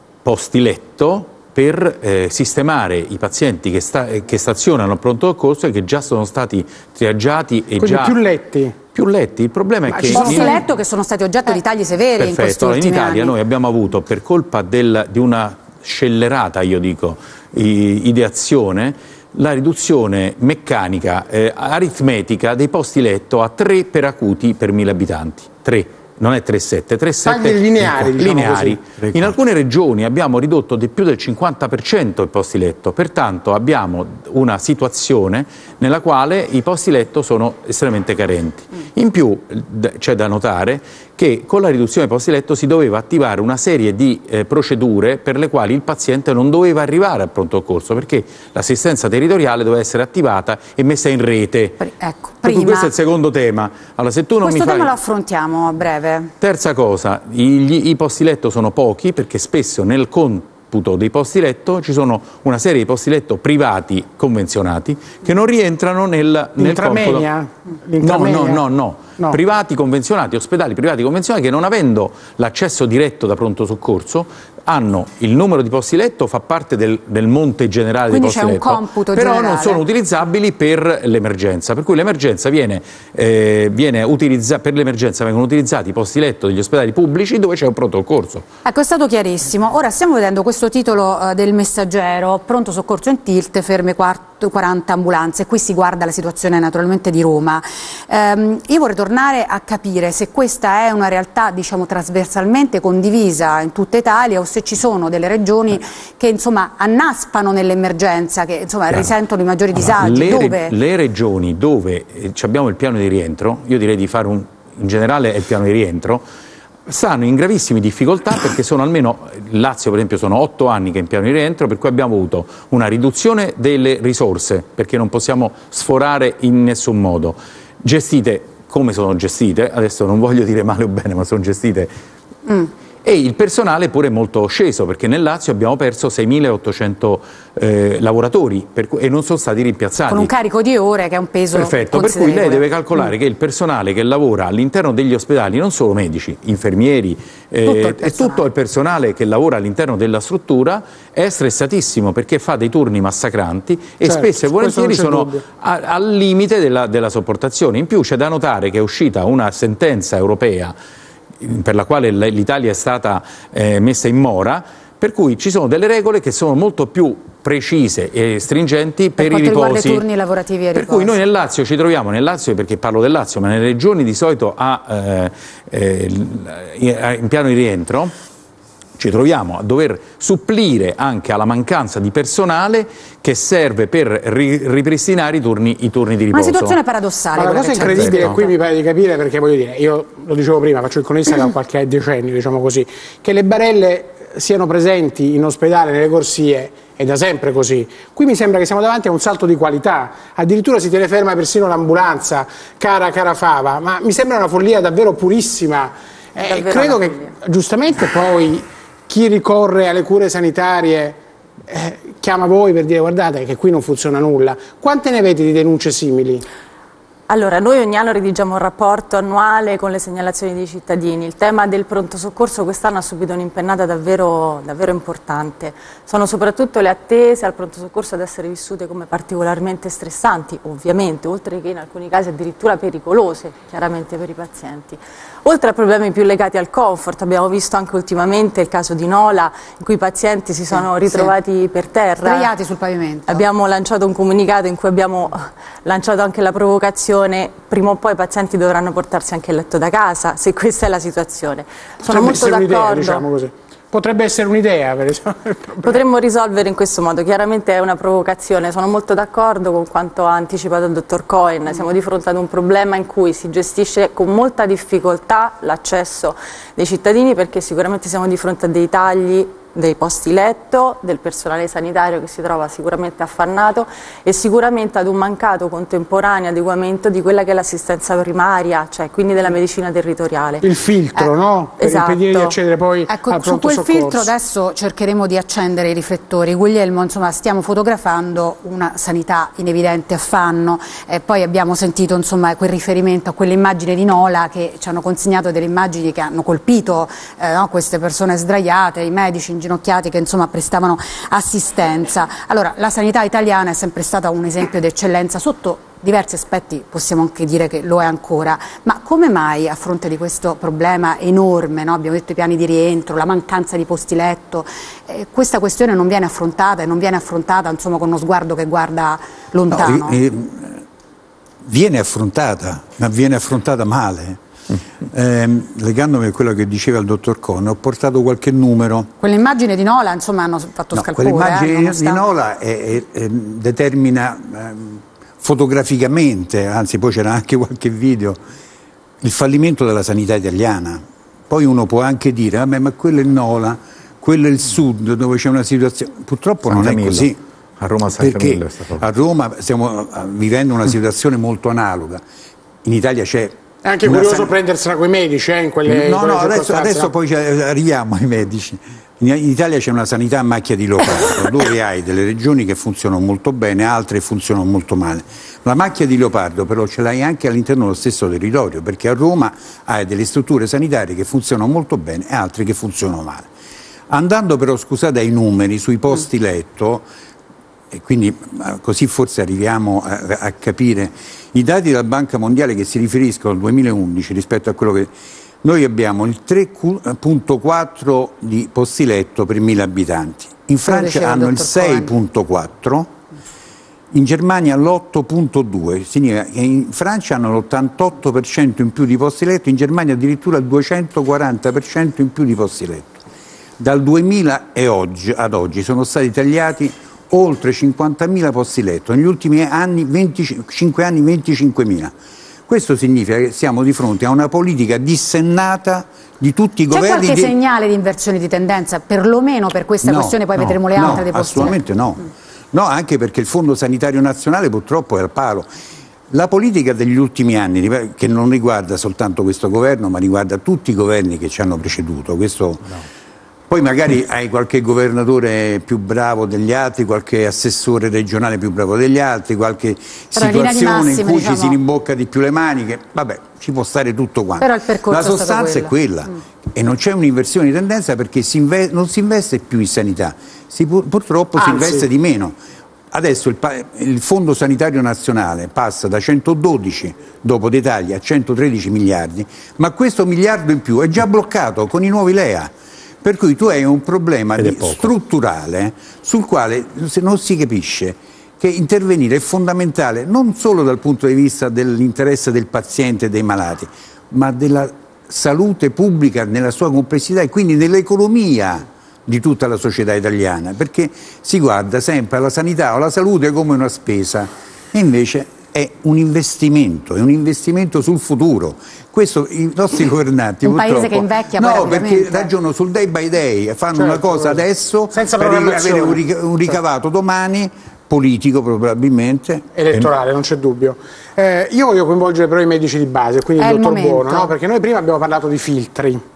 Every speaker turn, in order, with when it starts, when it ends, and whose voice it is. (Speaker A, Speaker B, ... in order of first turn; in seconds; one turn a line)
Speaker A: 0.2-8.2
Speaker B: 7.8-8.8
Speaker A: 8.9-10.6
Speaker B: 9.9-10.6
Speaker C: 10.1-13.3
Speaker A: 12.2-51.8
Speaker B: 27.2-28.8
Speaker C: 51.8-52.9
Speaker A: 52.4-54.9
Speaker C: 54.4-56.3
Speaker A: 56.4-67.3
Speaker B: 66.6-68.7
Speaker A: 68.0-88.5
Speaker C: 78.1-79.8
Speaker C: 88.7-110.7
Speaker A: 109.8-116.2
Speaker A: 116.9-131.9
Speaker A: 133.0-140.3
Speaker C: 140.1-142.6
Speaker A: 141.5-160.8
Speaker C: 148.0-148.4
Speaker B: 154.0-155.4
Speaker A: 161.4-170.0
Speaker C: 169.2-171.1
Speaker A: 170.7-178.1
Speaker A: 179.0-186.8
Speaker C: 186.3-188.5
Speaker B: 187.4-216.4
Speaker A: 187.8-188.4
Speaker D: 206.4-207.4
Speaker D: 217.3-242.5
Speaker C: 240.7-241.3
Speaker C: 242.2-243.4
Speaker D: 243.3-253.2
Speaker B: 252.0-256.0
Speaker D: 255.8-280.7
Speaker B: 280.6-284.3
Speaker D: 281.8-282.6
Speaker C: 283.1-320.2
Speaker E: 319.7-320.9
Speaker E: 321.6-324.4
Speaker E: 325.1-329.1
Speaker C: 329.2-332.2
Speaker E: 330.9-338.4
Speaker E: 339.2-347.4
Speaker A: 346.7-349.0
Speaker E: 348.1-352.2
Speaker E: 352.8-354.6
Speaker B: 353.8-357.1
Speaker E: 355.9-373.5
Speaker E: 374.1-377.1
Speaker E: 377.9-385.1
Speaker E: 385.6-393.1
Speaker C: 390.9-392.1
Speaker E: 394.1-403.2
Speaker E: 403.8-412.1
Speaker E: 412.7-417.5
Speaker C: 416.9-421.8
Speaker E: 420.0-425.7
Speaker E: 426.3-433.0
Speaker E: 433.7-452.6
Speaker C: 440.3-441.8
Speaker C: 444.6-445.9
Speaker B: 451.6-452.0
Speaker E: 453.1-462.7
Speaker E: 463.2-499.7
Speaker A: 464.6-465.1
Speaker C: 490.7-492.5
Speaker B: 493.9-496.2
Speaker B: 499.7-506.2
Speaker C: 503.6-504.5